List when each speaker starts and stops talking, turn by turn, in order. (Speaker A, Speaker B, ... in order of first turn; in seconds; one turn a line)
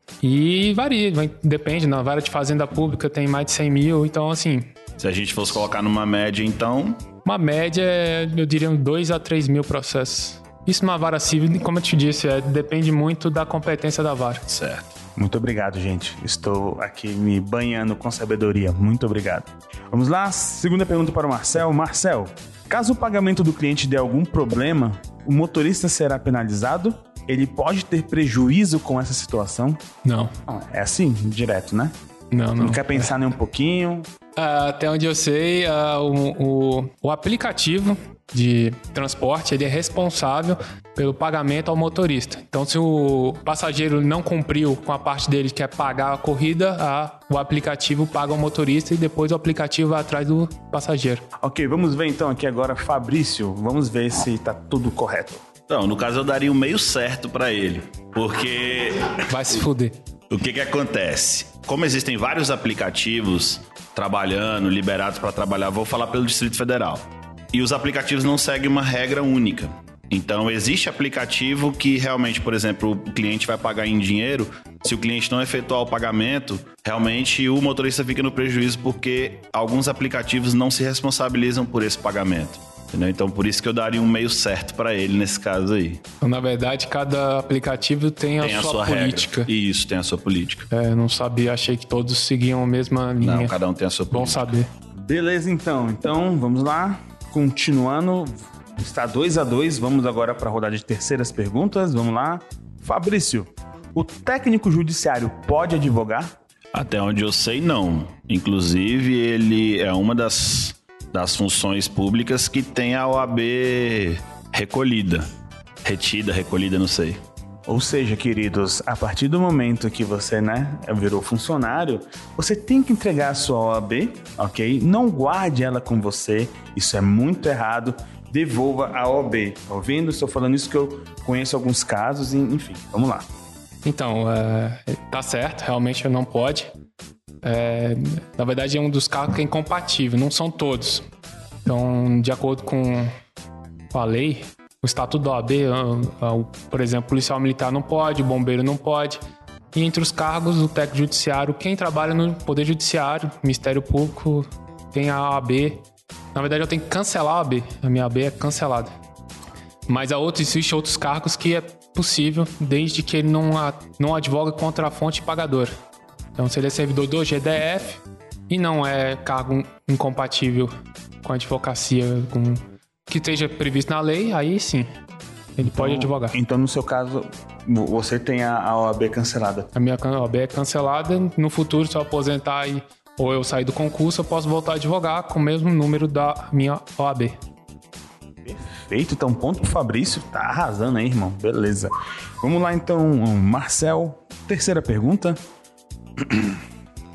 Speaker A: 0.2-4.7
Speaker B: 5.0-7.0
Speaker A: 7.2-14.4
Speaker B: 14.5-14.9
Speaker C: 15.2-29.8
Speaker A: 30.1-30.3
Speaker C: 30.5-31.9
Speaker A: 32.3-33.1
Speaker C: 32.6-34.1
Speaker A: 34.4-51.2
Speaker C: 51.4-55.4
Speaker B: 55.7-59.6
Speaker A: 59.3-59.9
Speaker B: 60.3-86.0
Speaker A: 86.2-89.5
Speaker B: 88.4-90.7
Speaker A: 90.7-93.5
Speaker B: 93.2-94.5
Speaker A: 94.1-94.7
Speaker C: 95.1-106.3
Speaker B: 106.7-115.2
Speaker B: 115.8-117.2
Speaker C: 117.7-133.3
Speaker A: 133.8-136.7
Speaker A: 137.4-141.1
Speaker A: 141.7-143.1
Speaker A: 143.9-149.2
Speaker A: 149.7-155.8
Speaker A: 156.3-158.9
Speaker A: 159.9-165.7
Speaker A: 166.4-170.7
Speaker A: 171.2-174.9
Speaker A: 175.6-176.3
Speaker C: 175.8-179.7
Speaker A: 179.7-187.3
Speaker C: 188.4-195.4
Speaker C: 196.2-196.6